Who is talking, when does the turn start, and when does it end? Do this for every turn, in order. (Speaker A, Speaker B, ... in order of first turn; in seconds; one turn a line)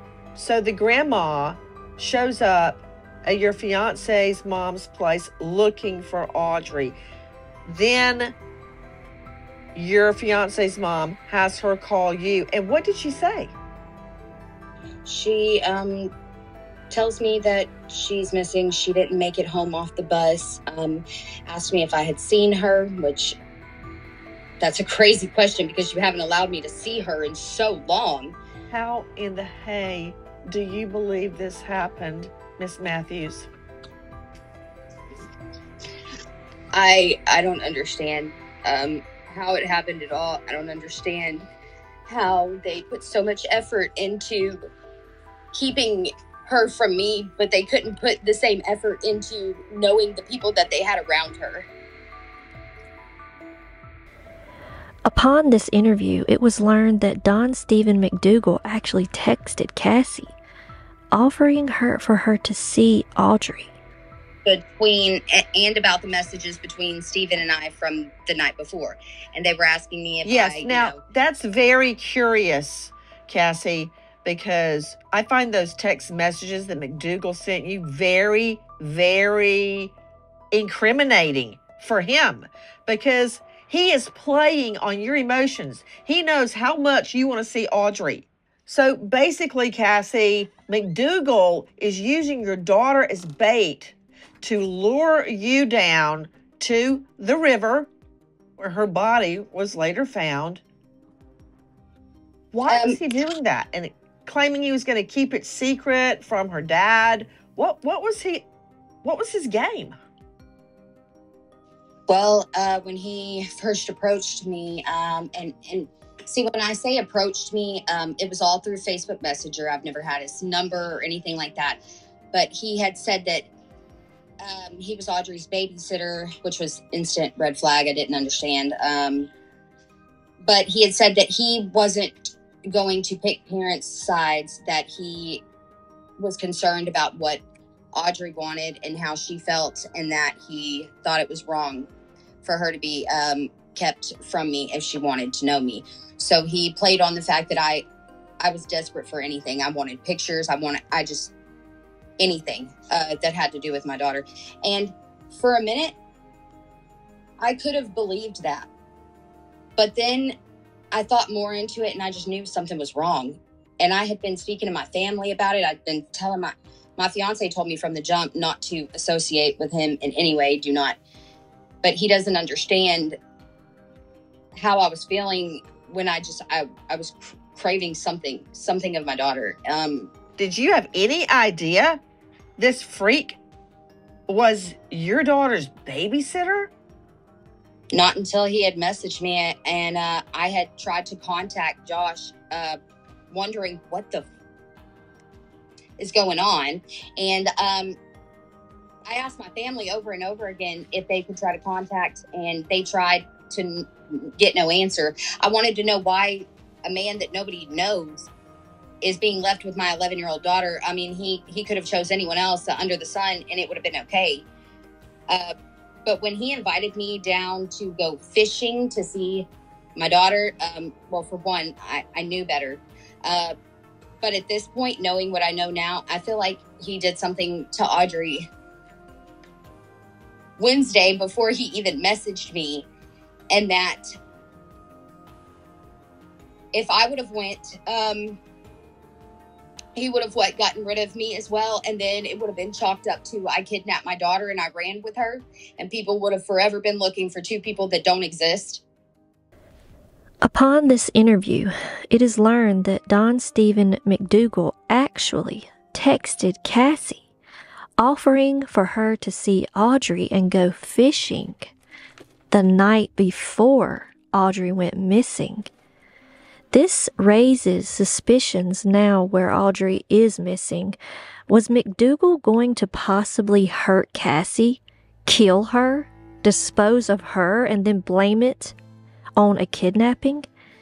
Speaker A: 0.3-7.0
Speaker A: 7.7-8.3
Speaker A: 9.7-13.5
Speaker B: 15.0-16.1
Speaker B: 16.9-23.4
Speaker B: 24.6-28.4
Speaker A: 28.7-33.5
Speaker B: 36.7-41.5
Speaker B: 42.0-44.6
Speaker B: 45.5-51.7
Speaker C: 55.0-60.3
Speaker C: 61.1-63.8
Speaker B: 64.4-71.0
Speaker A: 70.2-79.9
Speaker A: 80.5-97.9
Speaker A: 98.6-100.6
Speaker A: 102.5-108.5
Speaker B: 102.7-103.0
Speaker A: 109.0-110.0
Speaker B: 112.1-121.8
Speaker B: 122.3-123.5
Speaker B: 124.4-129.3
Speaker B: 130.4-135.4
Speaker B: 136.2-137.4
Speaker B: 137.9-141.9
Speaker B: 142.4-147.8
Speaker B: 148.4-151.3
Speaker B: 152.2-155.9
Speaker B: 157.4-158.7
Speaker B: 159.8-160.3
Speaker B: 160.9-171.0
Speaker B: 171.8-173.2
Speaker B: 174.5-180.1
Speaker A: 180.4-182.0
Speaker A: 182.6-183.4
Speaker A: 184.3-186.7
Speaker B: 187.9-192.8
Speaker B: 193.3-194.3
Speaker B: 196.0-198.0
Speaker B: 199.1-208.3
Speaker B: 209.0-214.4
Speaker B: 216.0-223.5
Speaker B: 224.2-228.5
Speaker B: 230.6-232.9
Speaker B: 233.5-234.0
Speaker B: 236.7-238.4
Speaker B: 239.9-248.8
Speaker C: 250.4-257.3
Speaker C: 258.0-261.7
Speaker C: 262.5-265.7
Speaker C: 266.7-271.0
Speaker C: 271.5-278.7
Speaker C: 279.4-280.5